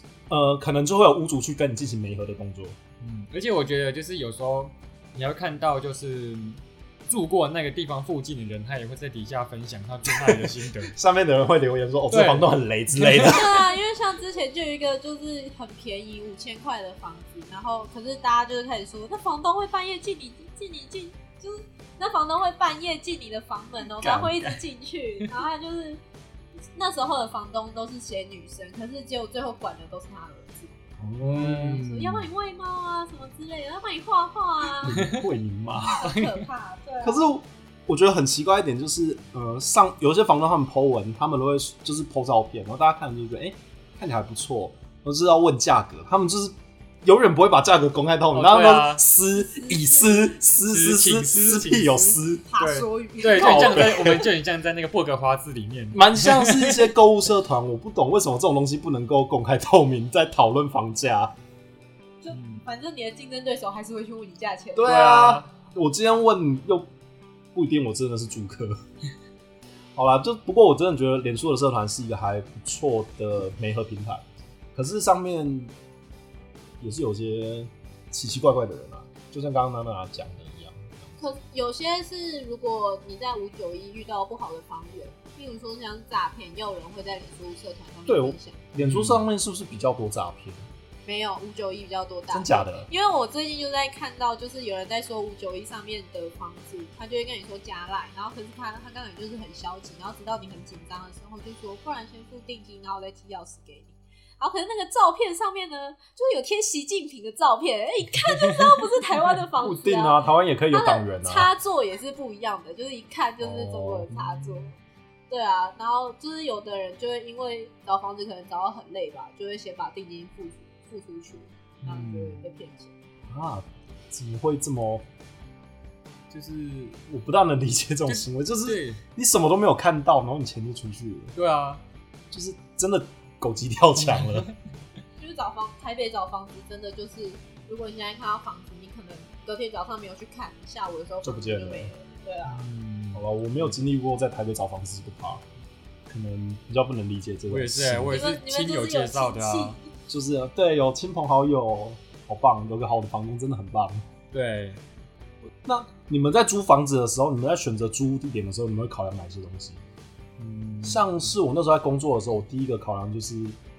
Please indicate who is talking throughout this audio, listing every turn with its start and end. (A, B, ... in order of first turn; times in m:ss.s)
0:00.3-0:02.8 A
0:03.0-0:10.9 B
0:10.9-0:13.5 A
0:12.1-0:13.4 B
0:13.2-0:26.0 C
0:24.0-0:24.6 B
0:26.8-0:30.8 C
0:31.0-0:32.2 A
0:31.2-0:31.9 B
0:31.4-0:35.1 C
0:34.8-0:36.0 A
0:35.0-0:35.2 B
0:35.8-0:37.2 C
0:36.0-0:36.4 B
0:37.0-0:52.5 A
0:48.3-0:49.0 B
0:49.4-0:50.3 C
0:50.7-0:56.9 B
0:52.5-0:54.2 C
0:53.3-0:54.2 A
0:55.9-1:01.3 A
1:02.2-1:05.2 C
1:02.3-1:02.6 B
1:04.8-1:06.9 A
1:04.8-1:05.5 B
1:07.5-1:08.8 A
1:10.0-1:14.2 A
1:14.8-1:15.7 A
1:16.8-1:21.2 A
1:21.2-1:28.7 C
1:28.1-1:30.7 A
1:28.8-1:29.2 B
1:31.0-1:54.8 C
1:32.3-1:32.9 A
1:48.4-1:48.7 B
1:49.6-1:51.5 A
1:53.4-1:54.2 A
1:54.4-1:54.6 B
1:55.3-2:03.0 C
2:01.8-2:02.5 B
2:03.3-2:05.0 A
2:06.3-2:07.0 B
2:07.1-2:11.3 A
2:08.1-2:09.0 B
2:11.4-2:11.8 B
2:12.3-2:14.5 A
2:14.0-2:14.5 B
2:15.2-2:22.6 C
2:21.2-2:21.9 A
2:22.5-2:23.8 B
2:23.1-2:25.4 A
2:26.1-2:28.2 A
2:27.5-2:29.8 B
2:28.1-2:29.9 C
2:30.1-2:34.0 A
2:34.3-2:34.8 B
2:35.6-2:39.8 A
2:40.4-2:41.3 B
2:40.8-2:43.6 A